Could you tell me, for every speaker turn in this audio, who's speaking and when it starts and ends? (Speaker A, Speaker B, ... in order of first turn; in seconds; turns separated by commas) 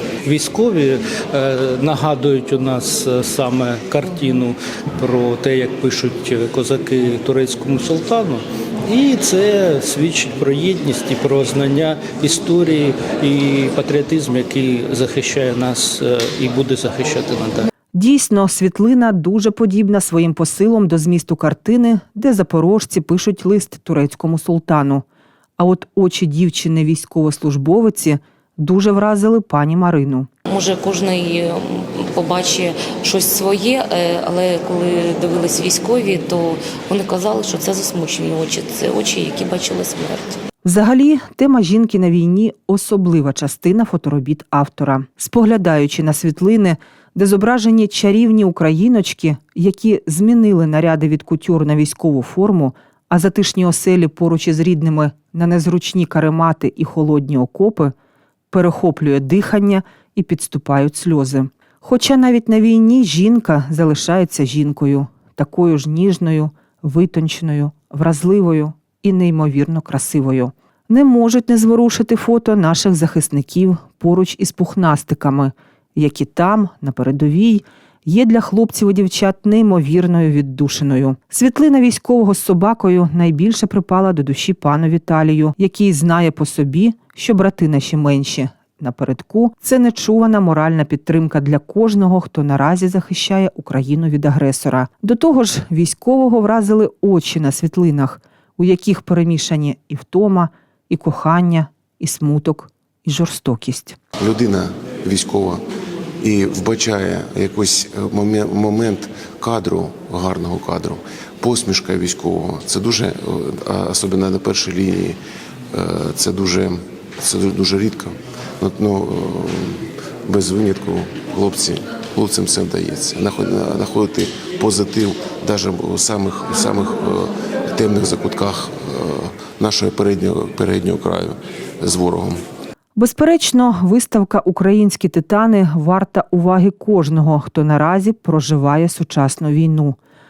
Speaker A: 0.2-17.7, Speaker B: 17.9-25.0, Speaker B: 25.6-30.3, Speaker C: 30.5-40.4, Speaker B: 40.6-57.9, Speaker B: 58.5-104.0, Speaker D: 104.2-105.6, Speaker D: 106.2-115.2, Speaker D: 115.7-132.4, Speaker B: 132.9-140.0